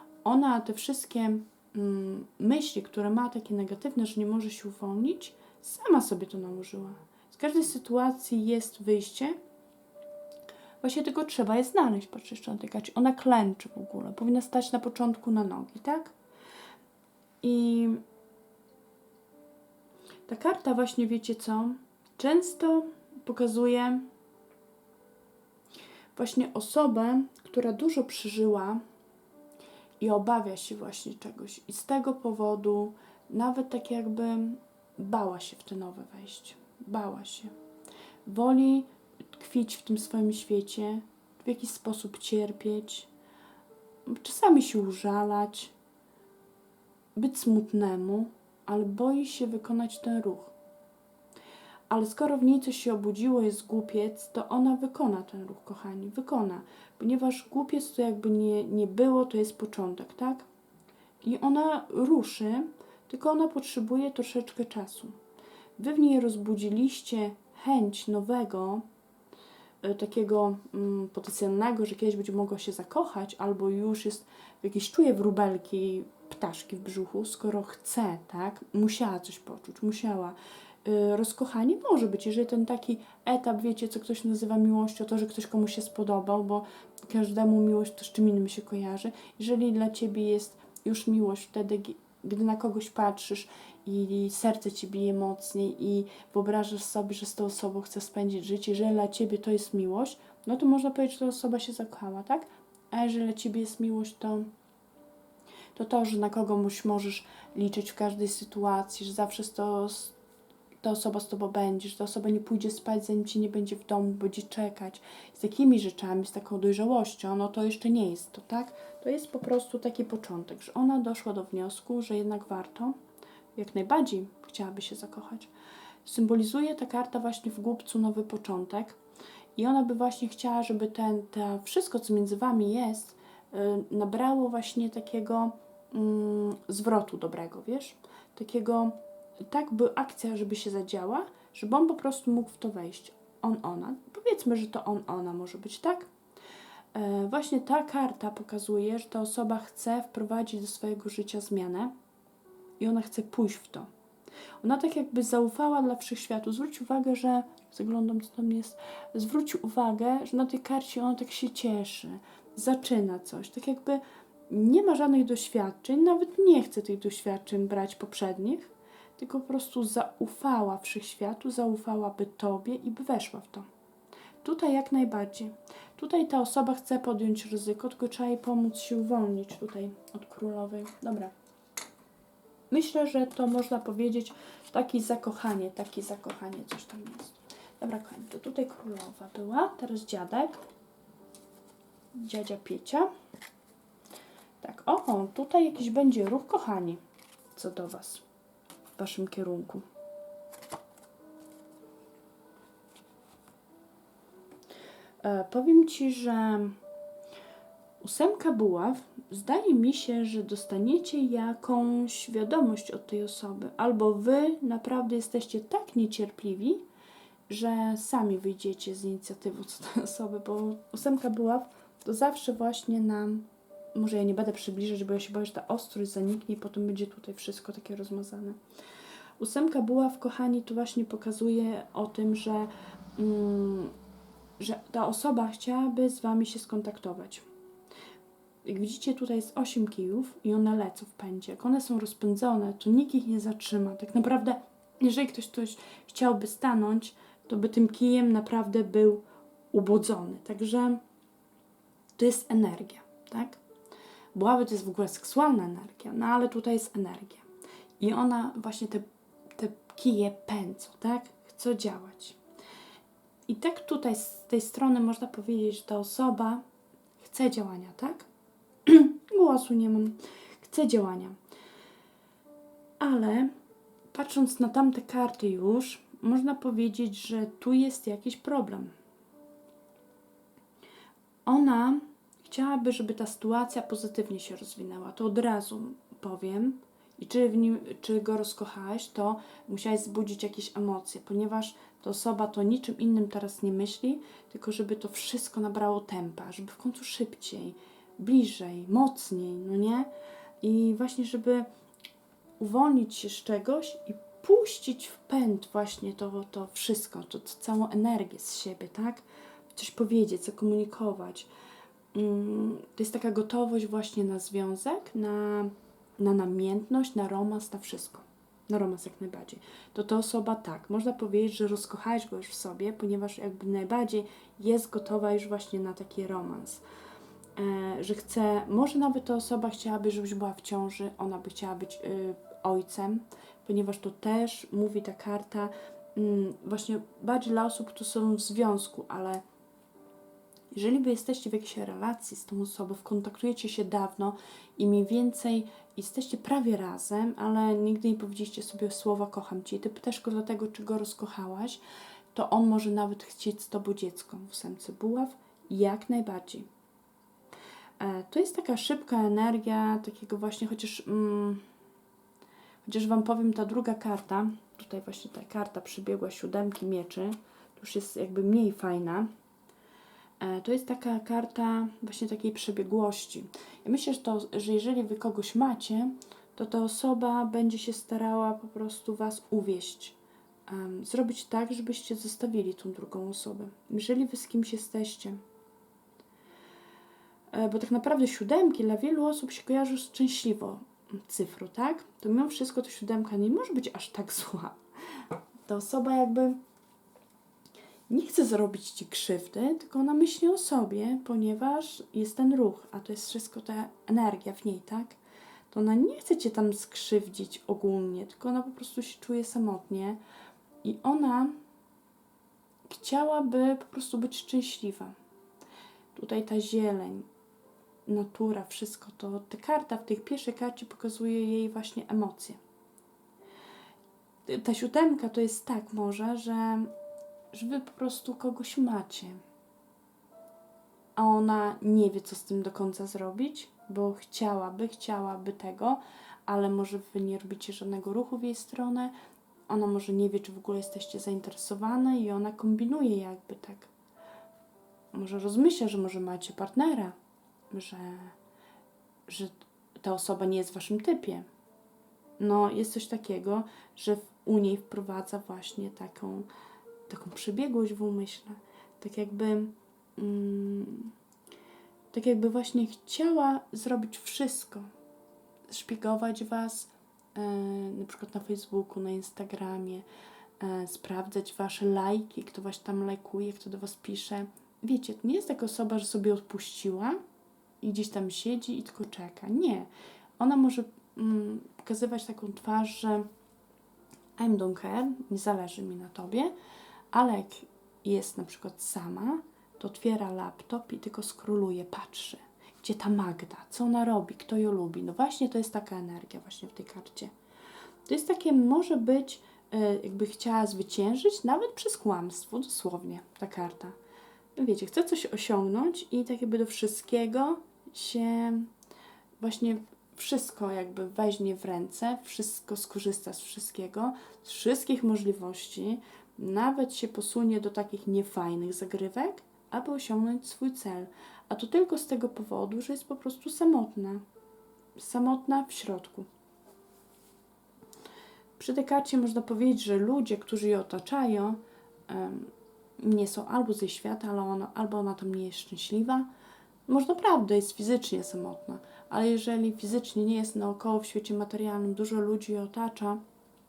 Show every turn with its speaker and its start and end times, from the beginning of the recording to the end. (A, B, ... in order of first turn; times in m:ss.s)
0:00.2-0:09.4 A
0:10.8-0:16.1 A
0:17.4-0:18.0 A
0:20.3-0:24.1 A
0:26.1-0:28.8 A
0:30.0-0:37.5 A
0:38.2-0:43.1 A
0:44.0-0:45.7 A
0:47.1-0:50.5 A
0:51.9-1:00.5 A
1:01.2-1:05.2 A
1:05.8-1:08.8 A
1:09.8-1:44.5 A
1:45.7-1:50.1 A
1:50.8-2:02.9 A
2:03.5-2:05.5 A
2:06.0-2:09.0 A
2:09.6-2:26.1 A
2:26.9-2:31.9 A
2:32.8-2:33.9 A
2:34.6-2:53.6 A
2:54.4-3:01.3 A
3:02.7-3:10.6 A
3:12.2-3:13.1 A
3:14.6-3:17.0 A
3:17.5-3:18.2 A
3:19.0-3:19.8 A
3:25.2-3:26.8 A
3:28.0-3:36.8 A
3:37.5-3:48.6 A
3:49.4-3:53.9 A
3:54.6-3:57.4 A
3:58.6-4:11.0 A
4:12.2-4:13.6 A
4:14.3-4:17.4 A
4:18.0-4:19.0 A
4:19.6-4:22.4 A
4:23.5-4:26.6 A
4:27.2-4:28.3 A
4:28.8-4:31.4 A
4:33.0-4:33.5 A
4:34.1-4:38.9 A
4:41.4-5:00.1 A
5:00.6-5:01.7 A
5:02.6-5:11.5 A
5:12.1-5:26.8 A
5:27.6-5:39.4 A
5:40.7-5:51.8 A
5:52.3-5:56.7 A
5:58.0-6:01.6 A
6:02.8-6:09.3 A
6:10.4-6:20.2 A
6:20.7-6:25.4 A
6:27.5-6:34.8 A
6:35.6-6:36.6 A
6:38.1-6:45.2 A
6:45.7-6:50.2 A
6:50.8-6:51.5 A
6:52.9-6:55.1 A
6:56.1-6:57.3 A
6:58.0-7:02.6 A
7:04.4-7:06.9 A
7:07.5-7:09.4 A
7:11.2-7:19.1 A
7:19.7-7:23.9 A
7:25.1-7:27.2 A
7:27.7-7:28.4 A
7:29.3-7:31.5 A
7:32.4-7:36.5 A
7:37.1-7:41.1 A
7:42.1-7:44.9 A
7:45.7-7:50.0 A
7:50.6-7:57.2 A
7:57.8-8:03.3 A
8:04.4-8:06.5 A
8:07.1-8:17.3 A
8:18.0-8:23.9 A
8:24.5-8:28.7 A
8:29.4-8:44.2 A
8:45.0-8:46.3 A
8:48.6-8:56.3 A
8:56.9-9:03.2 A